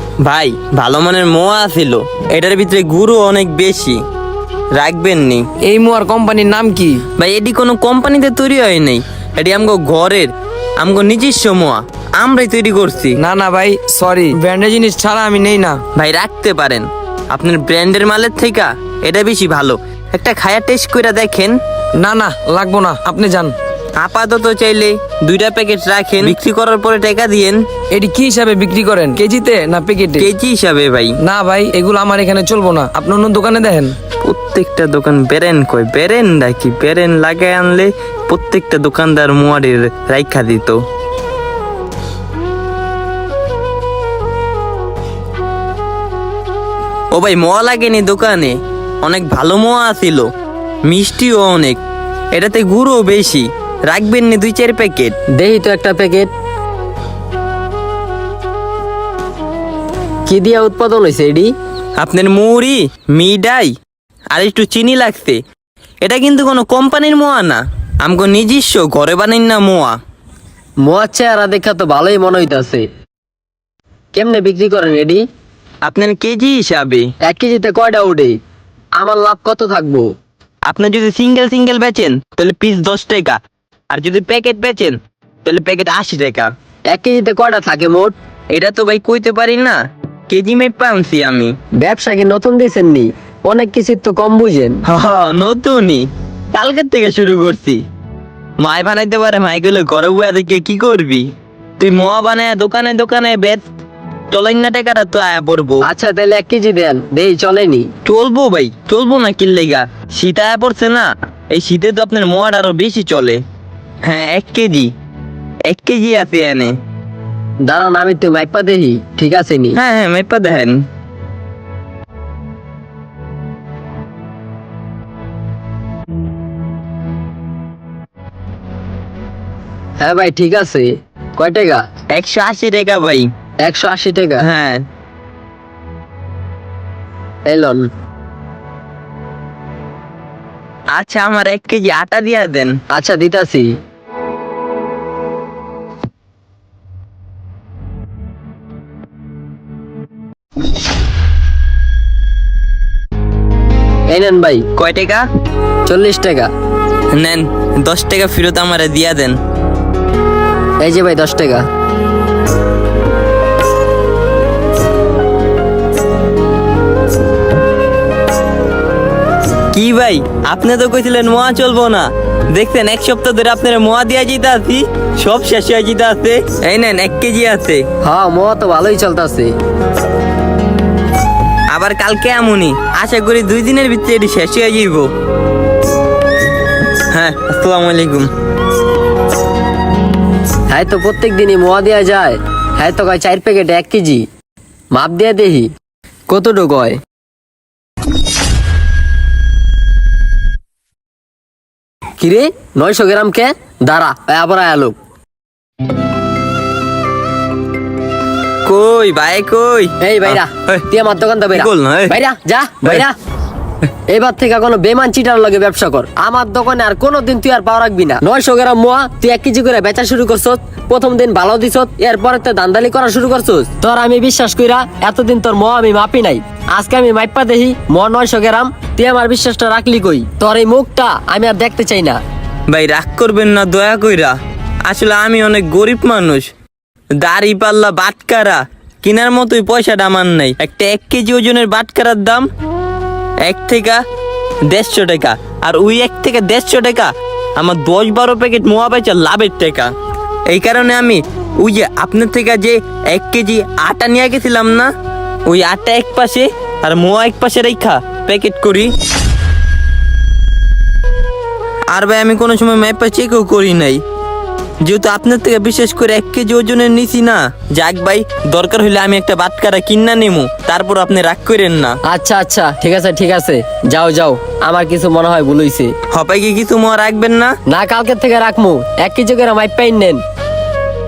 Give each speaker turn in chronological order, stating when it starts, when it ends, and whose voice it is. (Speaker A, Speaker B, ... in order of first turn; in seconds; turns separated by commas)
Speaker A: 0.2-4.0, Speaker A: 4.7-5.4, Speaker B: 5.6-7.0, Speaker A: 7.2-13.2, Speaker B: 13.2-15.8, Speaker A: 15.9-21.6, Speaker B: 22.0-23.6, Speaker A: 23.9-27.6, Speaker B: 27.9-30.3, Speaker A: 30.2-31.2, Speaker B: 31.2-34.0, Speaker A: 34.2-40.8, Speaker A: 47.1-50.3, Speaker A: 50.9-51.8, Speaker A: 52.3-55.2, Speaker C: 55.4-56.3, Speaker C: 60.3-61.5, Speaker A: 62.0-63.7, Speaker A: 64.3-65.4, Speaker A: 66.0-70.0, Speaker C: 70.8-72.8, Speaker C: 74.1-75.2, Speaker A: 75.8-77.1, Speaker C: 77.2-78.3, Speaker C: 79.0-80.1, Speaker A: 80.6-86.5, Speaker C: 86.9-88.1, Speaker A: 88.5-91.5, Speaker C: 91.8-94.8, Speaker A: 94.8-97.8, Speaker A: 98.6-103.6, Speaker A: 104.3-105.8, Speaker C: 105.8-107.9, Speaker A: 108.0-113.4, Speaker A: 114.0-114.9, Speaker A: 115.7-116.8, Speaker C: 117.6-119.8, Speaker A: 119.7-120.8, Speaker C: 130.0-131.8, Speaker A: 132.1-133.3, Speaker C: 133.6-134.4, Speaker A: 134.4-134.8, Speaker C: 137.5-137.8, Speaker A: 140.9-142.8, Speaker C: 142.9-143.7, Speaker C: 154.1-154.6, Speaker A: 154.8-155.2, Speaker C: 155.9-156.5, Speaker A: 157.1-159.4, Speaker C: 160.8-161.6, Speaker A: 169.7-177.8, Speaker C: 178.0-179.5, Speaker A: 181.7-185.1, Speaker A: 187.1-188.3, Speaker C: 190.7-194.2, Speaker C: 194.9-195.7, Speaker C: 196.3-197.0, Speaker C: 202.2-204.9, Speaker A: 208.6-210.9, Speaker C: 210.0-213.1, Speaker A: 211.5-212.2, Speaker C: 214.1-232.2, Speaker A: 232.7-236.5, Speaker A: 237.2-242.5, Speaker A: 243.4-244.0, Speaker A: 244.7-249.9, Speaker A: 250.5-254.9, Speaker A: 255.4-258.9, Speaker A: 261.9-264.0, Speaker A: 264.8-272.0, Speaker C: 272.1-275.9, Speaker A: 276.1-277.6, Speaker C: 277.7-280.2